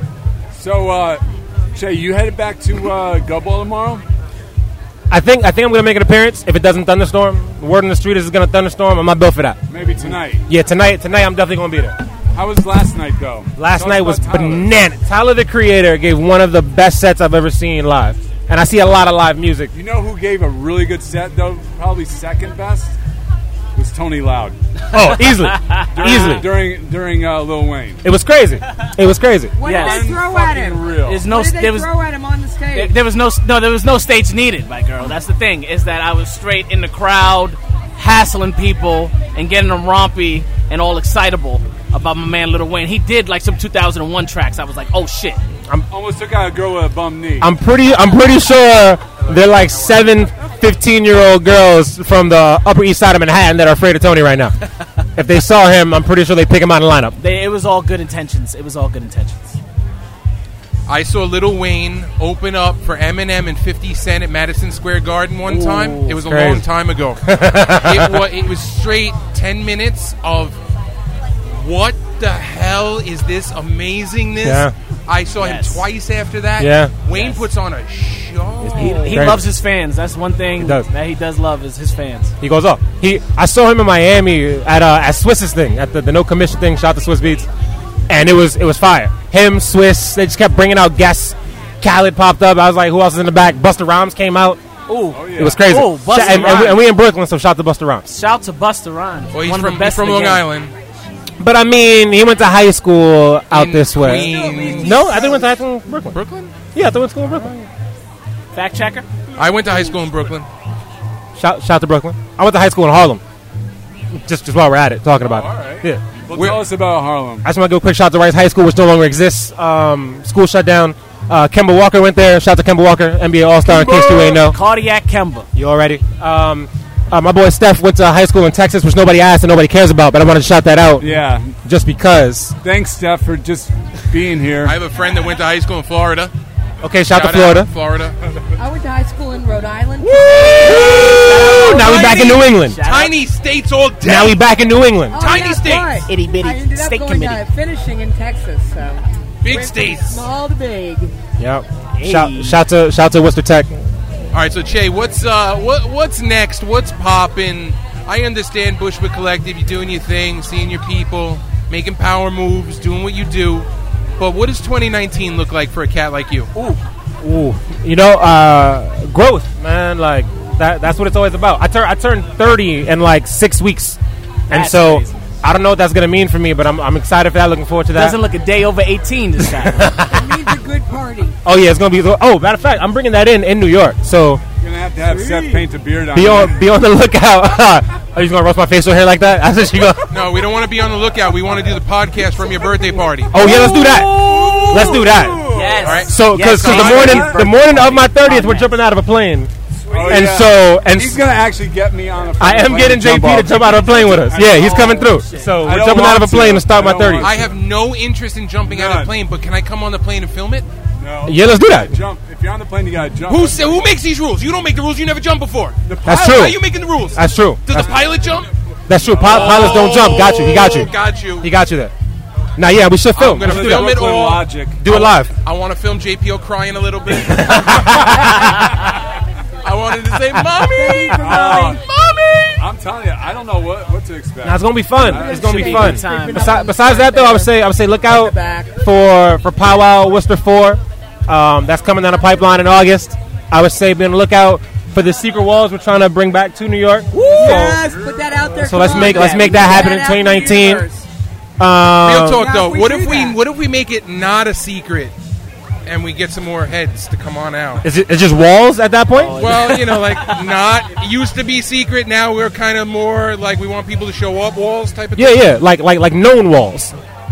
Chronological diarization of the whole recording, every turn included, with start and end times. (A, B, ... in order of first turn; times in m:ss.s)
0:00.5-0:04.0 A
0:05.1-0:09.6 B
0:09.7-0:10.4 A
0:10.4-0:12.0 B
0:12.3-0:14.7 A
0:13.6-0:19.7 B
0:19.7-0:22.9 A
0:23.7-0:24.6 A
0:24.9-0:26.5 B
0:25.5-0:26.4 C
0:25.9-0:28.0 A
0:28.0-0:29.5 B
0:29.5-0:32.9 D
0:29.6-0:30.1 C
0:29.8-0:31.3 A
0:31.0-0:31.9 C
0:32.7-0:45.4 C
0:45.9-0:47.5 A
0:47.4-0:54.5 B
0:55.2-0:57.2 B
0:57.2-0:59.5 C
1:00.9-1:07.2 E
1:05.4-1:06.2 C
1:06.2-1:06.6 B
1:07.2-1:08.2 B
1:07.8-1:10.6 E
1:11.4-1:19.1 E
1:14.4-1:14.7 B
1:15.4-1:15.8 C
1:16.6-1:16.9 B
1:17.1-1:17.4 C
1:18.7-1:22.3 C
1:18.8-1:19.4 B
1:20.6-1:20.9 B
1:22.4-1:27.5 B
1:28.1-1:34.6 B
1:34.9-1:36.8 C
1:35.1-1:35.6 A
1:35.4-1:38.0 B
1:38.0-1:40.4 C
1:39.3-1:40.7 E
1:41.4-1:46.2 B
1:43.5-1:45.0 E
1:44.1-1:45.5 D
1:46.1-1:46.5 E
1:46.7-1:47.7 B
1:48.5-1:49.1 C
1:49.3-1:50.5 E
1:51.4-1:53.2 B
1:54.1-1:56.0 B
1:55.2-1:57.4 A
1:56.3-1:56.6 E
1:57.4-2:04.6 B
2:03.6-2:05.5 C
2:05.5-2:11.1 B
2:11.0-2:11.5 A
2:11.6-2:12.5 B
2:12.6-2:14.8 A
2:14.6-2:16.3 E
2:16.8-2:17.7 B
2:17.1-2:18.2 E
2:18.6-2:22.1 D
2:20.0-2:22.8 B
2:20.6-2:23.2 C
2:21.0-2:24.4 E
2:24.0-2:25.2 B
2:25.1-2:31.1 D
2:25.2-2:26.0 E
2:26.0-2:27.4 C
2:29.4-2:30.2 E
2:31.4-2:33.8 B
2:32.0-2:32.6 C
2:34.3-2:43.7 E
2:44.2-2:46.5 E
2:47.2-2:54.0 B
2:54.5-2:58.2 B
2:54.5-2:55.2 C
2:57.9-2:59.8 C
2:59.4-3:00.5 B
3:00.1-3:01.4 D
3:01.4-3:04.4 B
3:04.6-3:06.6 A
3:05.0-3:05.6 D
3:06.1-3:10.2 B
3:10.1-3:13.4 E
3:13.3-3:15.5 B
3:13.4-3:16.0 A
3:14.0-3:15.0 D
3:15.5-3:18.7 C
3:15.8-3:17.2 E
3:16.0-3:19.5 B
3:16.9-3:17.4 A
3:19.8-3:27.5 A
3:20.0-3:21.2 B
3:22.4-3:27.3 B
3:23.8-3:25.7 C
3:27.2-3:30.7 E
3:28.6-3:29.1 A
3:31.0-3:33.8 A
3:31.2-3:32.0 B
3:33.2-3:38.5 E
3:35.8-3:36.3 A
3:36.1-3:36.6 B
3:37.1-3:37.8 B
3:38.9-3:41.9 B
3:39.1-3:39.8 A
3:39.2-3:41.5 E
3:42.6-3:44.0 B
3:43.2-3:48.9 E
3:43.2-3:44.8 A
3:44.8-3:45.3 B
3:47.2-3:48.5 B
3:49.6-3:52.6 E
3:50.6-3:51.8 D
3:51.1-3:51.8 A
3:52.6-3:55.5 A
3:54.4-4:07.8 B
3:55.1-3:56.6 C
3:55.1-3:58.7 D
4:07.3-4:11.0 D
4:08.6-4:10.8 B
4:11.6-4:12.4 B
4:12.0-4:15.1 E
4:12.3-4:13.4 D
4:15.8-4:17.8 E
4:17.8-4:19.4 B
4:19.1-4:20.3 C
4:19.4-4:25.4 E
4:25.2-4:26.9 B